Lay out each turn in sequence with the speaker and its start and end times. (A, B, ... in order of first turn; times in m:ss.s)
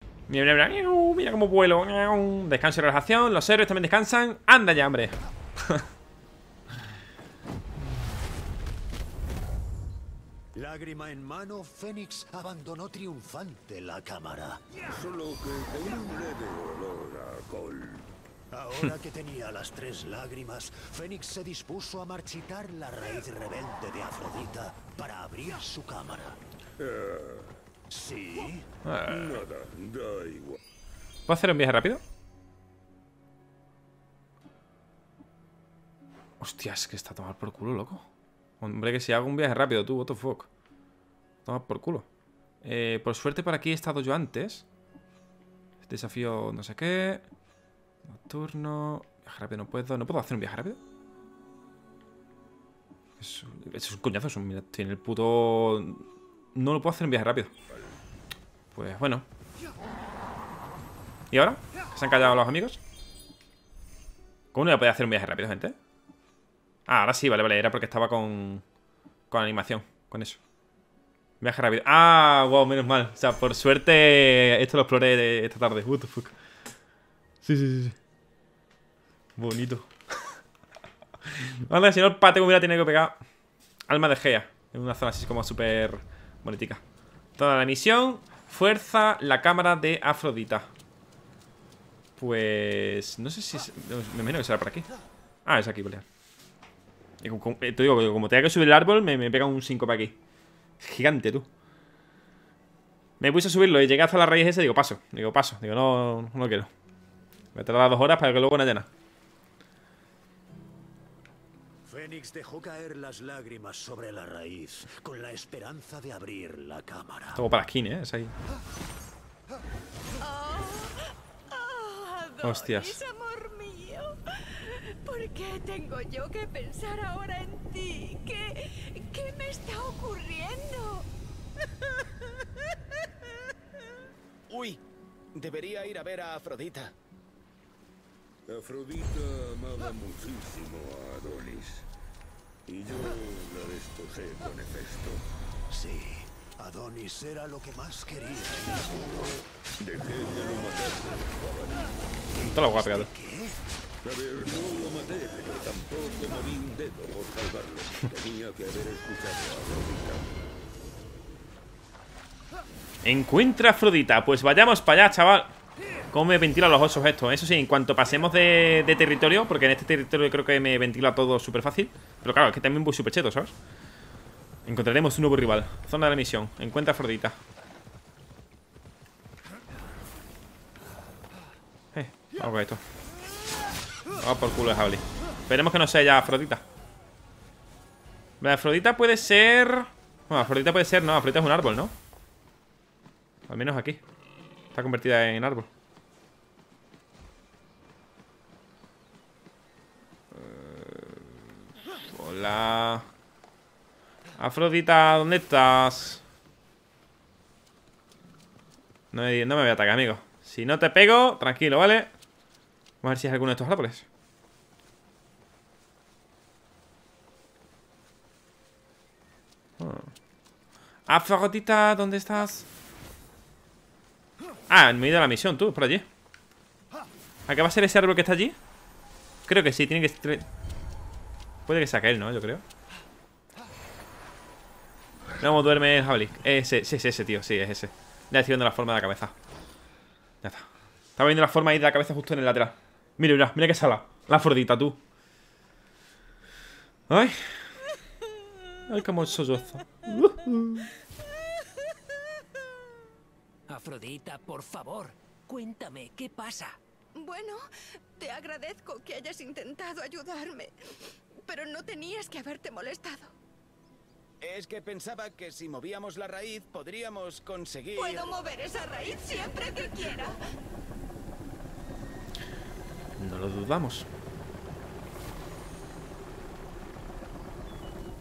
0:00.3-0:05.9 A
0:10.5-0:14.7 B
0:14.8-0:18.1 C
0:18.5-0:26.4 B
0:26.8-0:27.6 C
0:27.9-0:28.7 B
0:28.8-0:29.4 A
0:29.1-0:30.6 C
0:31.3-0:32.0 A
0:36.4-0:38.1 A
0:38.6-0:40.5 A
0:41.4-0:42.1 A
0:42.6-0:44.7 A
0:45.9-0:47.2 A
0:48.1-0:50.8 A
0:53.2-0:57.5 A
0:58.8-0:59.3 A
1:01.3-1:02.8 A
1:04.5-1:05.8 A
1:06.9-1:08.6 A
1:09.3-1:10.4 A
1:11.4-1:16.3 A
1:17.4-1:18.0 A
1:19.4-1:20.4 A
1:21.2-1:23.2 A
1:23.9-1:26.8 A
1:27.4-1:30.7 A
1:32.2-1:34.9 A
1:35.5-1:36.0 A
1:37.2-1:40.2 A
1:40.8-1:41.5 A
1:43.2-1:46.7 A
1:47.6-1:48.9 A
1:51.8-1:57.5 B
1:57.4-1:58.3 A
2:00.2-2:11.1 D
2:02.4-2:03.0 A
2:14.5-2:14.8 E
2:15.4-2:17.0 E
2:18.5-2:21.9 C
2:22.7-2:25.2 C
2:25.7-2:29.4 B
2:29.8-2:31.9 C
2:32.3-2:33.6 B
2:32.5-2:33.1 A
2:34.0-2:40.3 C
2:43.0-2:45.5 A
2:46.1-2:53.5 A
2:54.7-2:57.4 A
3:02.0-3:02.8 A
3:04.2-3:06.6 A
3:08.4-3:11.9 A
3:13.5-3:14.0 A
3:14.7-3:15.7 A
3:20.3-3:21.3 A
3:22.1-3:23.0 A
3:24.4-3:26.2 A
3:29.1-3:32.1 A
3:33.0-3:34.0 A
3:39.8-3:40.1 A
3:41.1-3:42.7 A
3:44.7-3:46.0 A
3:47.5-3:48.6 A
3:49.5-3:50.4 A
3:51.7-3:52.6 A
3:55.4-3:59.3 A
4:01.2-4:05.0 A
4:07.1-4:07.6 A
4:08.9-4:10.9 A
4:13.7-4:16.8 F
4:17.2-4:17.6 D
4:18.2-4:20.7 D
4:21.5-4:23.4 D
4:24.4-4:28.4 E
4:27.9-4:30.4 D
4:33.2-4:34.1 A